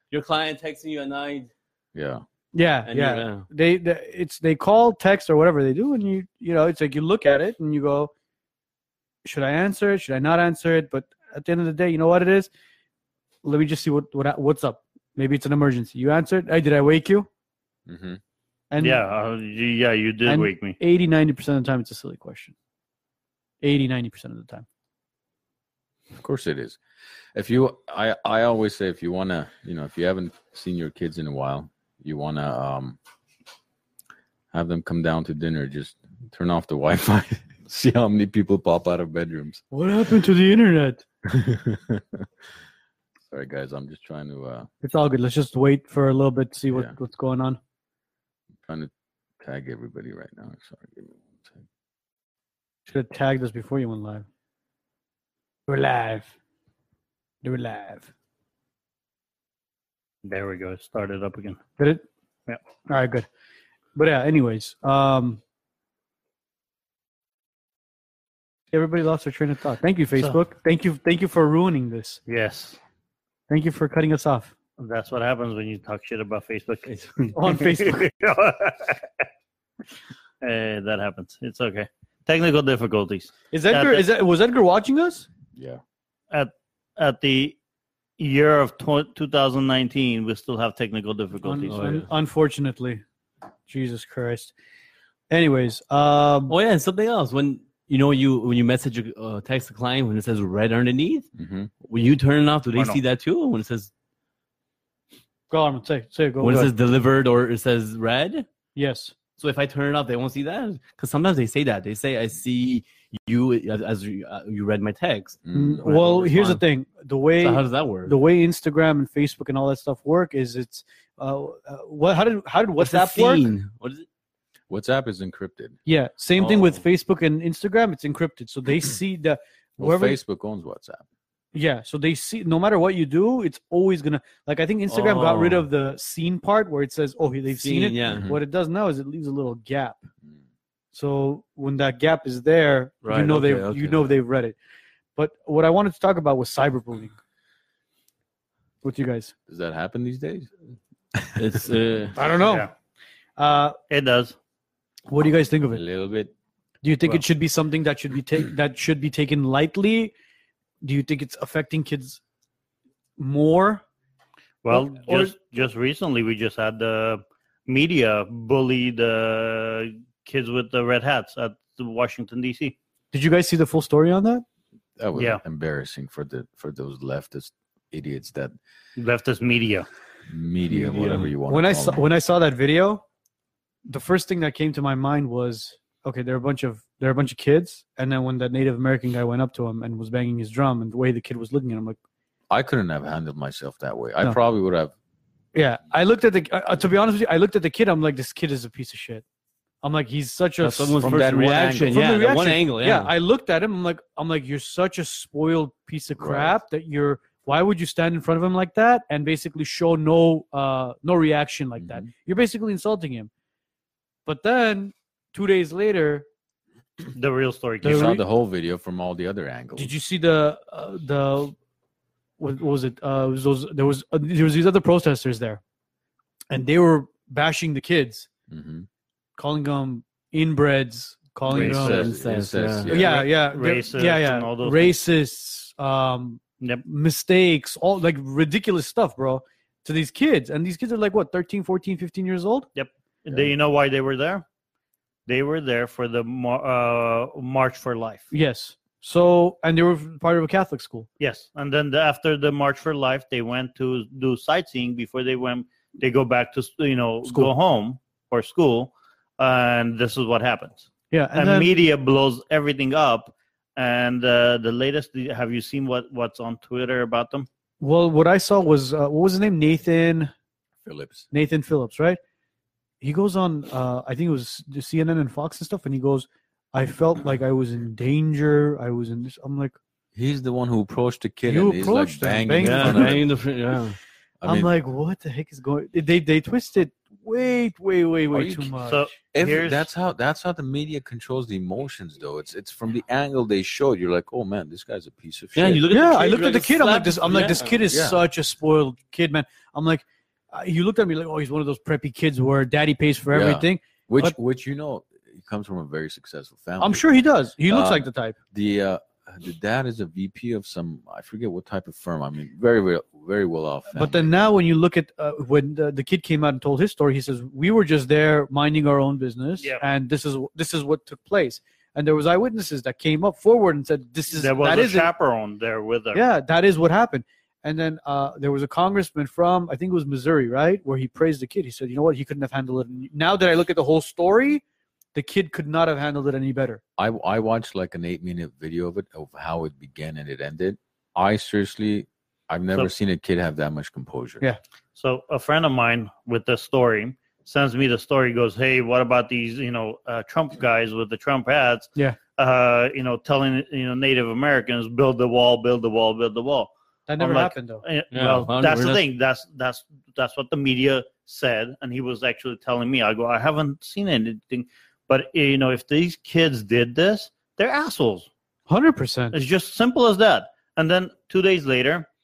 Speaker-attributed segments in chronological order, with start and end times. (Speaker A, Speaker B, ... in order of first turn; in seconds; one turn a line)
Speaker A: 0.1-1.5
Speaker B: 1.9-2.2
Speaker C: 2.5-8.1
Speaker A: 2.9-3.5
Speaker C: 9.2-12.5
Speaker C: 13.4-17.3
Speaker B: 17.9-18.2
Speaker C: 18.7-19.0
Speaker D: 18.8-20.8
Speaker C: 20.3-22.5
Speaker C: 23.6-24.7
Speaker B: 26.1-26.8
Speaker B: 27.3-33.0
Speaker B: 34.5-39.6
Speaker C: 39.7-41.0
Speaker B: 41.2-42.3
Speaker B: 43.3-44.7
Speaker C: 44.8-47.6
Speaker B: 49.4-51.6
Speaker C: 52.9-54.3
Speaker C: 55.7-56.3
Speaker C: 57.4-58.1
Speaker D: 60.2-61.6
Speaker C: 61.8-62.0
Speaker C: 62.9-63.3
Speaker C: 64.0-65.4
Speaker C: 68.7-72.2
Speaker D: 72.3-72.8
Speaker C: 73.5-74.5
Speaker D: 74.8-79.0
Speaker C: 77.3-78.1
Speaker D: 80.4-84.1
Speaker C: 83.5-85.3
Speaker B: 85.6-85.8
Speaker D: 86.3-87.6
Speaker D: 88.2-91.8
Speaker C: 91.4-93.0
Speaker A: 91.7-92.1
Speaker C: 93.7-94.5
Speaker C: 95.3-96.5
Speaker A: 96.5-101.3
Speaker B: 101.4-101.7
Speaker A: 101.8-103.9
Speaker D: 102.8-103.0
Speaker C: 105.5-106.7
Speaker A: 106.4-108.5
Speaker C: 108.8-109.1
Speaker A: 109.4-116.6
Speaker B: 115.4-115.8
Speaker C: 115.5-123.5
Speaker A: 117.4-118.2
Speaker A: 122.8-124.1
Speaker B: 124.7-125.8
Speaker C: 125.9-130.2
Speaker A: 126.4-126.8
Speaker B: 129.8-131.1
Speaker C: 131.5-140.1
Speaker A: 134.9-135.7
Speaker A: 137.5-138.3
Speaker B: 138.1-138.4
Speaker C: 140.9-144.6
Speaker A: 143.0-144.2
Speaker C: 145.2-147.2
Speaker C: 148.8-149.3
Speaker B: 149.5-150.5
Speaker B: 151.2-151.4
Speaker A: 151.4-152.2
Speaker C: 152.2-152.7
Speaker D: 152.4-152.7
Speaker C: 153.4-153.8
Speaker D: 153.9-154.4
Speaker C: 155.1-155.8
Speaker B: 155.7-156.3
Speaker C: 156.8-160.1
Speaker C: 160.8-162.2
Speaker C: 163.2-163.8
Speaker D: 164.6-172.8
Speaker C: 164.7-165.4
Speaker C: 173.1-174.4
Speaker B: 175.0-178.5
Speaker D: 175.2-175.4
Speaker D: 179.0-179.9
Speaker B: 180.3-182.0
Speaker A: 180.8-181.3
Speaker C: 181.1-183.0
Speaker C: 183.9-192.0
Speaker B: 192.5-194.9
Speaker C: 195.5-199.2
Speaker C: 199.8-213.3
Speaker A: 200.6-203.1
Speaker B: 201.0-202.0
Speaker B: 206.2-206.6
Speaker B: 211.8-212.1
Speaker C: 214.2-216.2
Speaker D: 217.2-218.2
Speaker B: 217.8-219.9
Speaker C: 217.8-218.2
Speaker C: 219.8-221.6
Speaker C: 222.4-225.6
Speaker C: 226.5-228.3
Speaker B: 228.5-228.9
Speaker C: 229.4-232.1
Speaker D: 231.5-231.8
Speaker B: 231.5-233.1
Speaker A: 231.6-232.9
Speaker C: 232.9-242.7
Speaker D: 233.0-235.0
Speaker D: 242.8-244.4
Speaker D: 245.3-248.3
Speaker C: 248.3-251.1
Speaker D: 251.2-267.5
Speaker C: 261.1-261.8
Speaker C: 267.8-270.3
Speaker B: 270.8-271.2
Speaker C: 271.3-272.2
Speaker C: 273.0-279.8
Speaker B: 280.1-283.3
Speaker C: 281.4-283.2
Speaker A: 282.6-284.0
Speaker B: 284.4-284.7
Speaker C: 284.4-289.1
Speaker B: 288.3-295.8
Speaker D: 288.9-289.9
Speaker A: 295.5-297.9
Speaker C: 295.9-304.3
Speaker B: 297.9-298.2
Speaker B: 303.3-307.1
Speaker C: 306.8-308.4
Speaker B: 307.6-314.3
Speaker C: 313.9-325.1
Speaker D: 324.3-326.2
Speaker C: 326.1-334.6
Speaker C: 335.1-336.8
Speaker B: 337.0-344.4
Speaker D: 344.9-368.3
Speaker C: 357.1-357.8
Speaker A: 358.1-359.0
Speaker C: 368.7-369.4
Speaker D: 369.3-372.1